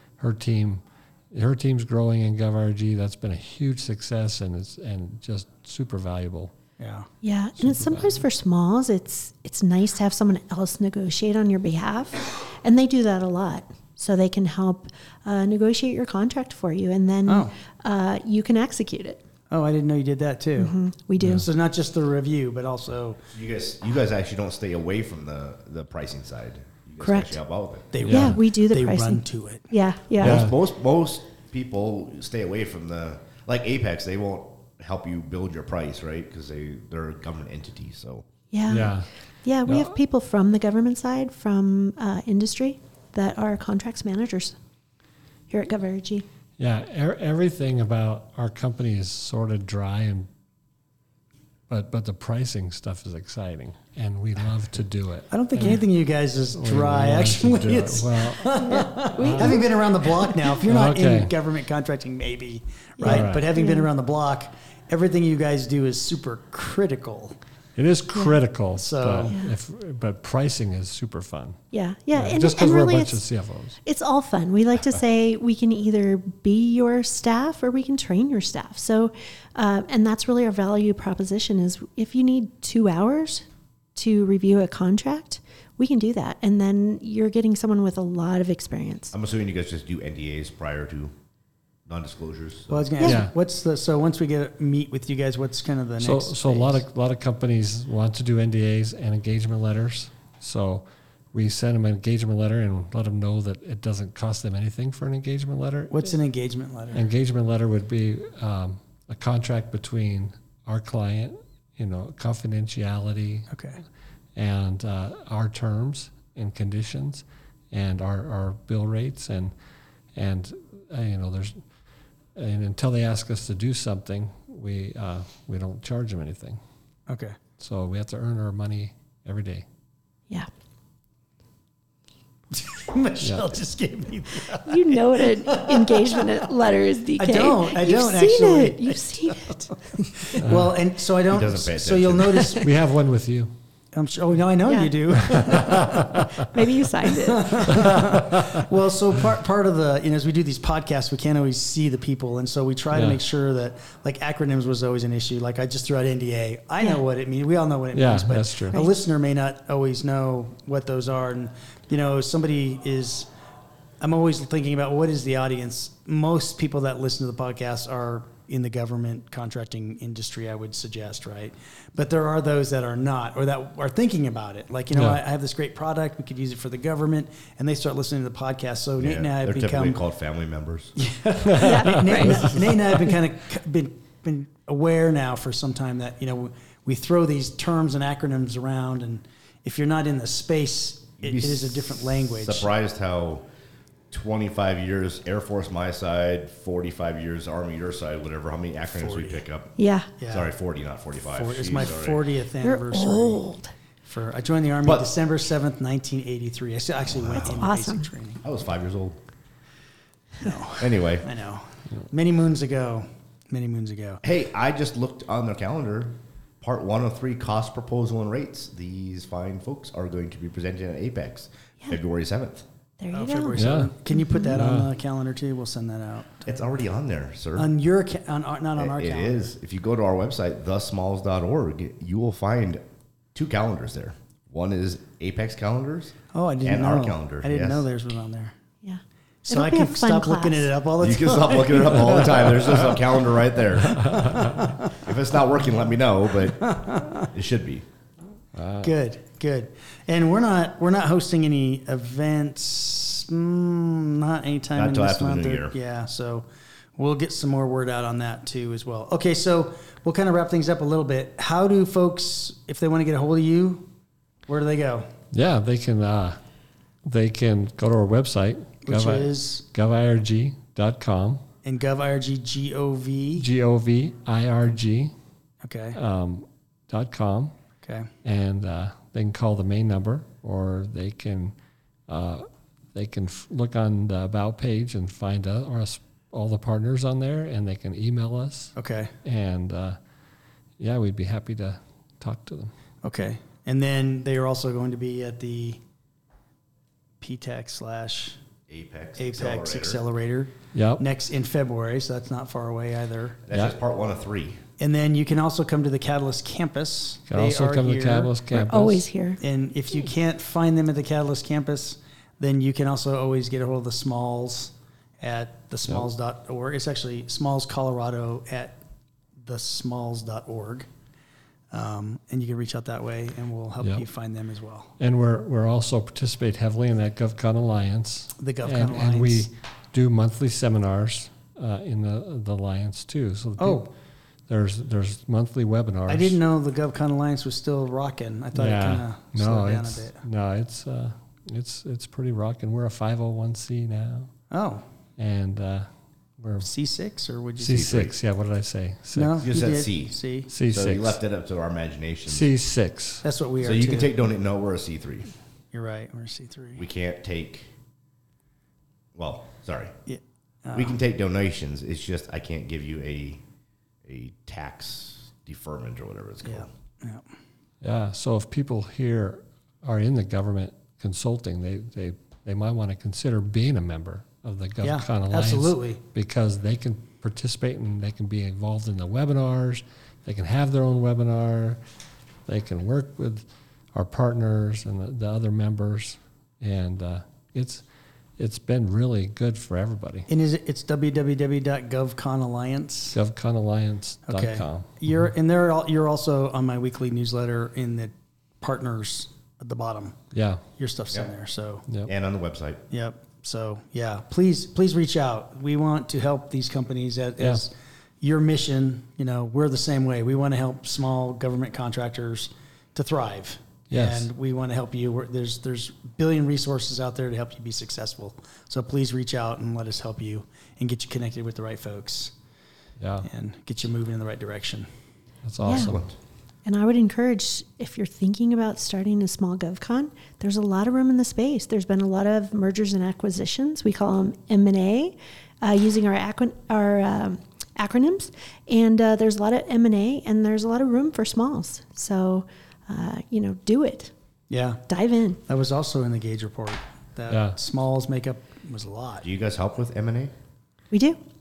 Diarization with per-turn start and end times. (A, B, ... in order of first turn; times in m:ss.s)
0:00.2-0:06.5 A
0:06.8-0:07.1 B
0:07.2-0:19.2 C
0:07.6-0:08.2 A
0:17.3-0:17.5 B
0:19.5-0:20.8 B
0:20.6-0:21.5 C
0:21.2-0:21.4 A
0:21.3-0:23.2 B
0:23.3-0:27.9 D
0:27.0-0:27.4 C
0:27.9-0:29.7 B
0:28.0-0:28.4 A
0:28.0-0:30.5 C
0:30.2-0:38.3 D
0:30.2-0:30.6 A
0:38.5-0:44.6 C
0:38.7-0:39.1 A
0:39.6-0:40.0 A
0:45.5-0:46.3 C
0:46.6-0:50.3 A
0:51.7-0:55.8 A
0:55.3-1:07.4 B
0:56.5-0:59.6 A
0:58.6-0:59.7 C
1:00.6-1:01.3 A
1:03.0-1:03.9 C
1:03.1-1:03.5 A
1:07.8-1:11.6 A
1:08.7-1:09.4 B
1:11.7-1:13.2 C
1:12.1-1:13.8 A
1:13.8-1:23.4 C
1:24.0-1:29.1 C
1:29.1-1:31.1 D
1:31.9-1:32.9 D
1:32.7-1:36.8 B
1:33.0-1:33.3 A
1:36.0-1:46.2 A
1:45.9-1:47.0 B
1:46.9-1:53.5 A
1:53.5-1:53.8 B
1:54.4-1:59.5 A
2:00.2-2:01.6 A
2:02.4-2:06.6 A
2:07.1-2:07.4 B
2:07.6-2:09.6 A
2:12.5-2:16.4 B
2:14.6-2:20.4 C
2:17.2-2:22.7 B
2:21.3-2:22.6 D
2:22.6-2:23.5 A
2:23.9-2:26.1 B
2:24.7-2:25.0 C
2:25.3-2:26.2 A
2:26.4-2:27.8 C
2:27.2-2:43.3 B
2:27.7-2:28.6 A
2:32.9-2:33.2 A
2:37.9-2:38.8 A
2:44.0-3:00.0 B
2:54.9-2:55.2 A
2:59.0-3:01.0 D
3:01.0-3:12.7 B
3:01.6-3:02.6 C
3:11.2-3:13.4 D
3:14.1-3:19.8 D
3:19.0-3:19.4 B
3:19.8-3:20.1 C
3:20.2-3:20.5 B
3:20.3-3:22.3 D
3:21.2-3:23.5 B
3:22.6-3:23.7 C
3:24.0-3:28.4 B
3:24.8-3:25.1 D
3:27.2-3:27.6 D
3:27.4-3:28.1 C
3:28.4-3:29.2 D
3:30.4-3:34.2 B
3:30.8-3:31.3 D
3:34.2-3:42.7 D
3:43.0-3:44.6 C
3:43.1-3:46.6 B
3:43.6-3:43.9 A
3:44.5-3:44.9 A
3:46.5-3:47.7 D
3:47.6-3:49.5 B
3:48.8-3:57.9 D
3:56.3-3:58.6 B
3:58.8-4:00.7 C
3:59.4-4:03.0 B
4:01.0-4:04.3 D
4:04.0-4:04.7 A
4:04.1-4:05.1 B
4:04.9-4:07.9 D
4:06.6-4:07.3 B
4:08.6-4:08.9 A
4:08.8-4:23.9 B
4:14.8-4:15.8 D
4:24.5-4:25.1 B
4:25.3-4:26.4 A
4:27.0-4:31.4 A
4:28.8-4:29.6 B
4:31.6-4:33.5 B
4:33.4-4:35.1 A
4:35.6-4:36.0 B
4:35.9-4:37.6 A
4:37.8-4:38.1 B
4:38.2-4:41.6 A
4:42.1-4:50.0 A
4:48.8-4:49.1 B
4:50.8-4:52.7 A
4:53.0-4:55.8 B
4:57.2-4:58.4 B
4:58.7-5:00.0 D
4:59.2-5:03.4 B
5:00.7-5:01.0 A
5:03.5-5:04.6 D
5:04.8-5:08.4 B
5:07.3-5:09.1 A
5:08.5-5:09.4 C
5:09.4-5:18.8 B
5:19.4-5:20.9 B
5:21.7-5:24.9 B
5:25.0-5:33.9 A
5:28.4-5:29.5 B
5:33.6-5:33.9 B
5:34.5-5:36.4 A
5:36.1-5:40.2 B
5:38.6-5:44.3 A
5:44.5-5:44.8 B
5:45.2-5:45.9 A
5:46.4-5:46.7 A
5:46.6-5:48.0 B
5:47.6-5:49.5 A
5:47.7-5:48.1 D
5:49.2-5:50.5 B
5:49.4-5:52.5 D
5:50.5-5:51.2 A
5:52.3-5:53.2 A
5:53.2-5:54.1 B
5:53.6-5:55.3 D
5:55.7-5:56.8 B
5:56.8-5:57.7 D
5:59.2-6:00.0 D
6:00.1-6:01.0 B
6:00.7-6:03.4 D
6:04.0-6:06.7 D
6:06.4-6:07.3 B
6:07.8-6:21.8 A
6:14.8-6:16.0 B
6:22.5-6:27.8 A
6:28.4-6:30.3 A
6:30.3-6:33.2 B
6:33.1-6:35.2 A
6:34.3-6:40.2 B
6:40.3-6:40.6 A
6:40.7-6:41.9 B
6:42.0-6:42.8 D
6:42.9-7:02.3 B
6:53.9-6:54.3 A
7:03.0-7:03.3 A
7:03.2-7:04.9 B
7:05.4-7:06.1 A
7:05.6-7:05.9 C
7:05.7-7:06.1 D
7:06.6-7:24.1 C
7:24.5-7:24.8 B
7:24.9-7:25.4 C
7:25.5-7:29.2 B
7:27.3-7:27.6 A
7:29.2-7:30.3 D
7:30.9-7:31.2 C